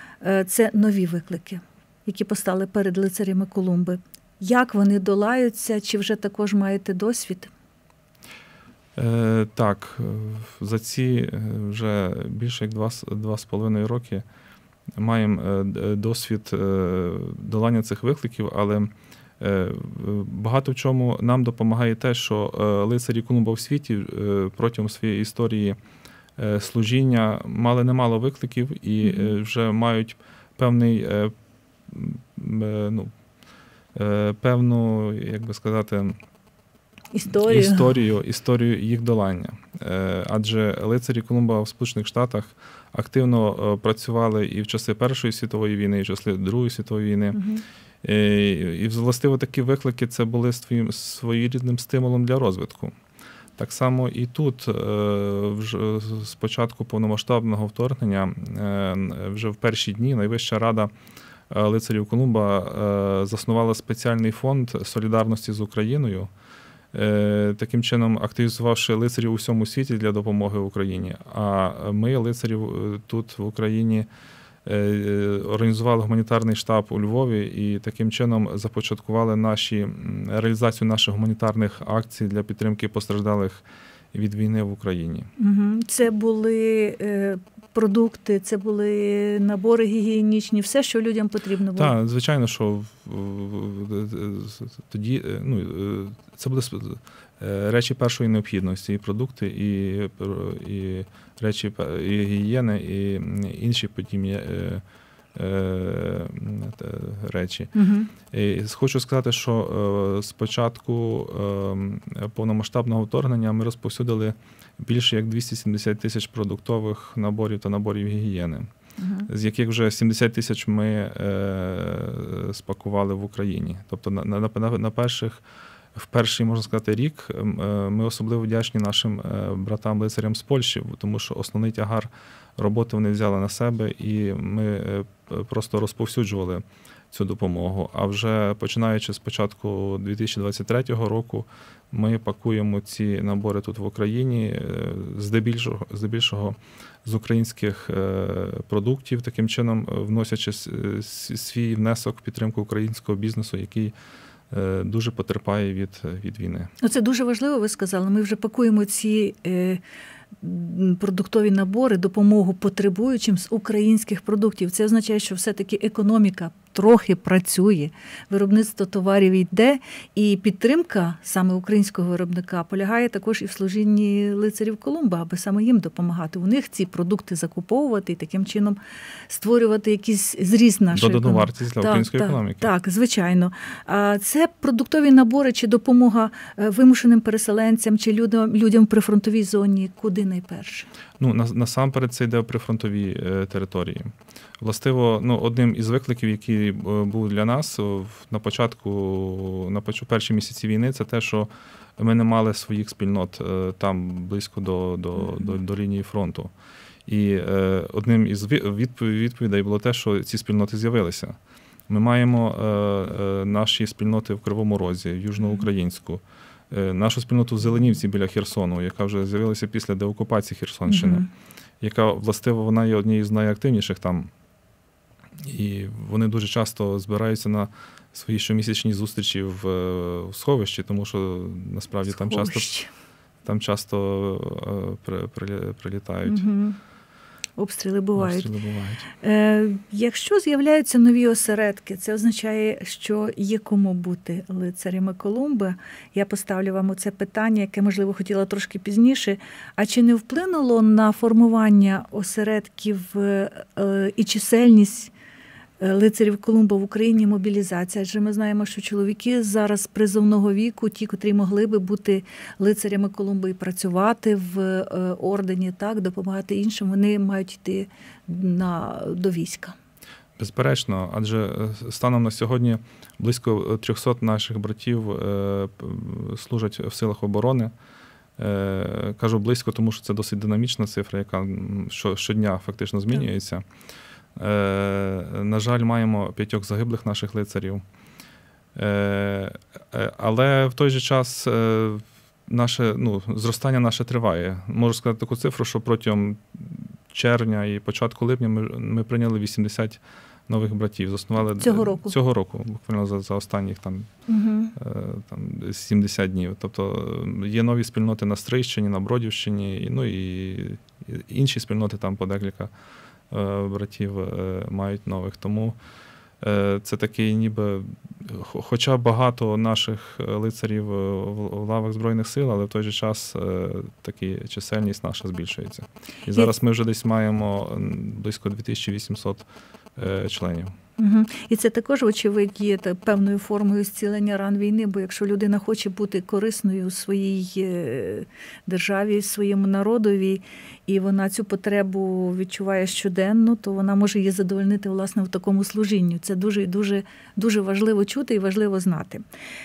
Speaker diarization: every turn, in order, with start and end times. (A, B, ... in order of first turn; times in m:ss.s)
0:00.2-0:07.5 A
0:09.0-0:14.2 B
0:15.0-0:25.8 B
0:26.4-0:31.3 B
0:29.0-0:29.3 A
0:31.9-0:33.1 B
0:33.9-0:36.2 B
0:37.1-0:37.9 A
0:37.3-0:47.4 B
0:47.3-0:47.6 A
0:48.0-0:53.0 B
0:53.6-1:00.9 B
1:01.5-1:06.3 B
1:06.9-1:14.1 B
1:14.6-1:25.3 B
1:25.4-1:31.9 A
1:31.8-1:44.8 B
1:45.3-1:47.7 B
1:47.8-1:48.1 A
1:48.3-1:58.7 B
1:59.0-1:59.3 A
1:59.3-2:05.4 B
2:05.9-2:33.9 B
2:34.5-2:36.7 B
2:36.8-2:39.8 A
2:40.4-2:58.8 A
2:59.3-3:10.9 A
3:00.9-3:02.7 B
3:11.2-3:26.5 B
3:27.1-3:31.4 B
3:31.9-3:41.3 B
3:40.9-3:41.3 A
3:41.8-3:44.3 B
3:45.4-3:52.7 B
3:52.1-3:52.9 A
3:53.4-3:56.4 B
3:56.2-3:56.8 A
3:57.6-3:58.5 A
3:58.1-3:59.1 B
3:59.2-4:15.1 A
4:15.8-4:29.8 A
4:30.4-4:37.7 B
4:38.4-4:43.6 B
4:44.4-4:47.8 B
4:48.7-5:04.1 B
5:01.6-5:02.2 A
5:04.3-5:04.8 A
5:04.7-5:12.7 B
5:13.3-5:15.8 B
5:16.4-5:30.7 B
5:31.0-5:49.2 A